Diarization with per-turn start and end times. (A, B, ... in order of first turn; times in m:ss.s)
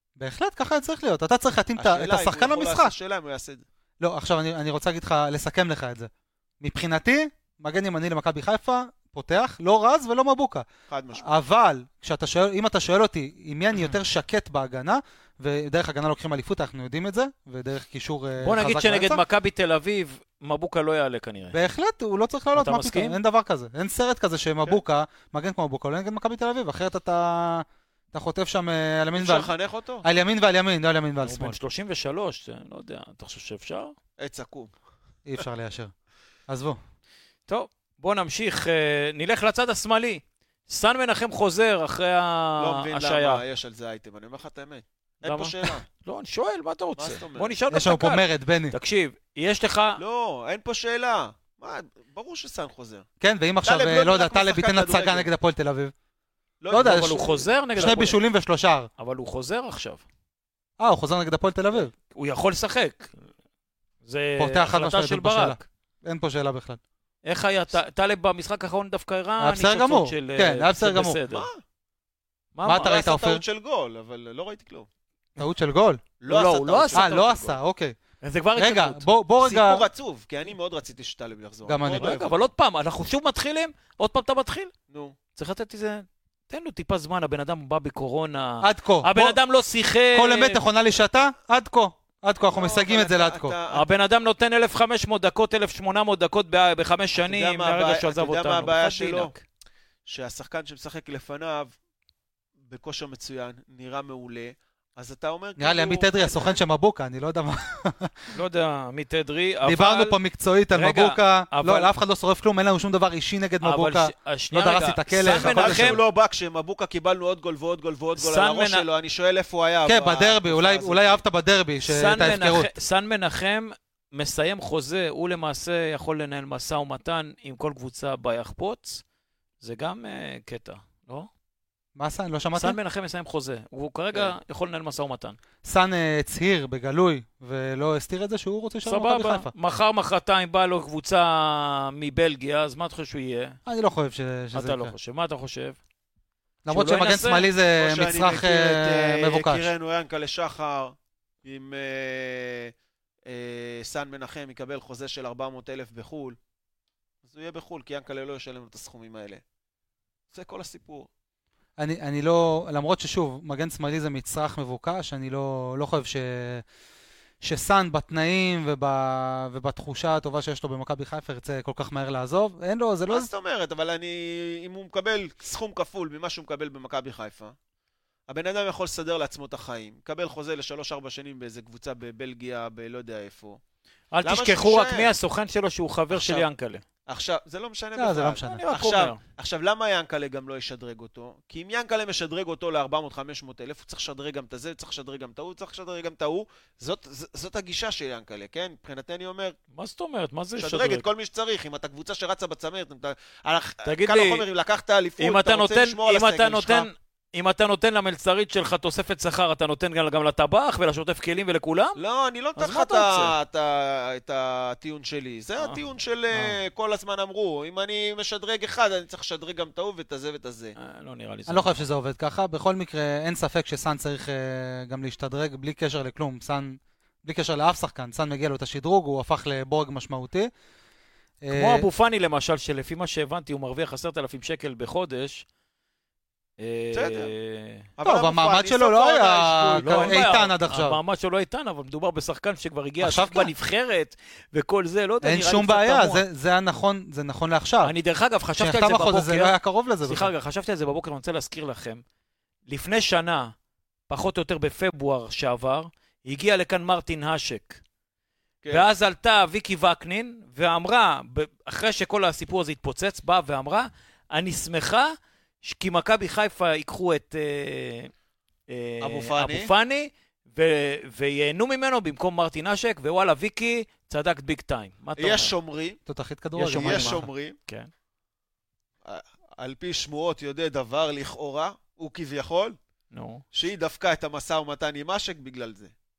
0:00.2-0:02.9 A
0:01.8-0:03.6 B
0:04.0-0:06.1 A
0:06.6-0:10.6 A
0:10.9-0:11.4 B
0:11.2-0:19.2 A
0:18.4-0:21.6 C
0:21.5-0:29.5 A
0:22.5-0:23.2 C
0:29.2-0:30.1 B
0:30.0-0:31.6 A
0:31.2-0:34.0 C
0:34.2-0:34.7 B
0:35.3-0:35.9 A
0:36.5-0:36.8 A
0:37.5-0:43.4 C
0:42.6-0:45.8 B
0:45.2-0:50.0 C
0:47.0-0:47.6 B
0:47.7-0:48.8 A
0:50.0-0:53.1 B
0:53.2-0:55.9 A
0:53.6-0:55.3 B
0:56.6-0:57.5 B
0:56.7-0:58.9 A
0:56.7-0:58.2 C
0:59.0-1:00.0 C
1:00.8-1:01.9 A
1:01.7-1:03.1 C
1:04.0-1:05.6 C
1:04.4-1:06.8 A
1:07.2-1:11.5 C
1:09.4-1:11.2 A
1:11.3-1:11.6 B
1:12.6-1:12.9 C
1:12.6-1:13.4 A
1:12.8-1:14.9 B
1:15.4-1:16.0 A
1:16.2-1:17.6 B
1:16.3-1:17.3 C
1:16.9-1:18.0 A
1:18.2-1:19.0 C
1:18.6-1:19.9 A
1:19.4-1:22.4 B
1:21.7-1:22.2 A
1:21.9-1:24.7 C
1:24.9-1:25.2 B
1:25.4-1:30.6 C
1:28.6-1:29.4 A
1:30.1-1:33.6 A
1:32.5-1:33.9 B
1:33.7-1:39.4 C
1:37.2-1:39.3 B
1:40.1-1:41.7 B
1:42.7-1:46.6 B
1:45.6-1:48.3 A
1:48.3-1:50.2 C
1:49.6-1:56.0 A
1:50.7-1:51.9 C
1:53.6-1:56.0 C
1:55.2-2:01.2 B
1:58.2-1:58.9 C
1:59.8-2:02.7 A
2:01.8-2:09.0 C
2:09.6-2:11.3 C
2:12.0-2:12.8 A
2:12.6-2:15.4 C
2:15.6-2:19.5 A
2:18.8-2:23.6 C
2:23.7-2:24.9 A
2:24.5-2:25.8 C
2:26.6-2:29.7 A
2:26.7-2:27.5 C
2:27.8-2:32.7 B
2:33.3-2:36.4 B
2:37.2-2:39.4 B
2:40.3-2:41.1 B
2:41.8-2:46.6 A
2:47.4-2:53.3 A
2:53.1-2:57.6 B
2:58.3-3:03.6 B
3:04.1-3:06.8 C
3:04.2-3:05.1 B
3:06.1-3:06.5 B
3:07.1-3:19.6 B
3:08.0-3:08.6 A
3:08.4-3:09.2 C
3:19.7-3:21.1 C
3:20.6-3:26.9 B
3:23.8-3:24.5 C
3:25.2-3:32.0 C
3:32.0-3:40.8 B
3:32.6-3:33.4 C
3:36.3-3:36.6 C
3:40.8-3:41.8 C
3:41.5-3:50.5 A
3:51.4-3:51.9 A
3:51.5-3:55.4 C
3:56.6-3:57.9 C
3:56.9-3:57.3 B
3:58.0-4:00.3 B
3:58.0-4:01.0 A
3:59.8-4:06.2 C
4:03.0-4:03.5 A
4:05.2-4:07.9 A
4:07.8-4:12.0 C
4:08.6-4:10.3 A
4:12.7-4:13.5 C
4:14.1-4:17.8 C
4:18.7-4:28.1 C
4:28.7-4:35.5 C
4:29.0-4:29.7 B
4:35.2-4:36.0 B
4:36.1-4:37.2 A
4:36.6-4:37.9 C
4:36.7-4:37.6 B
4:39.0-4:42.8 B
4:43.1-4:43.4 C
4:43.5-4:45.9 B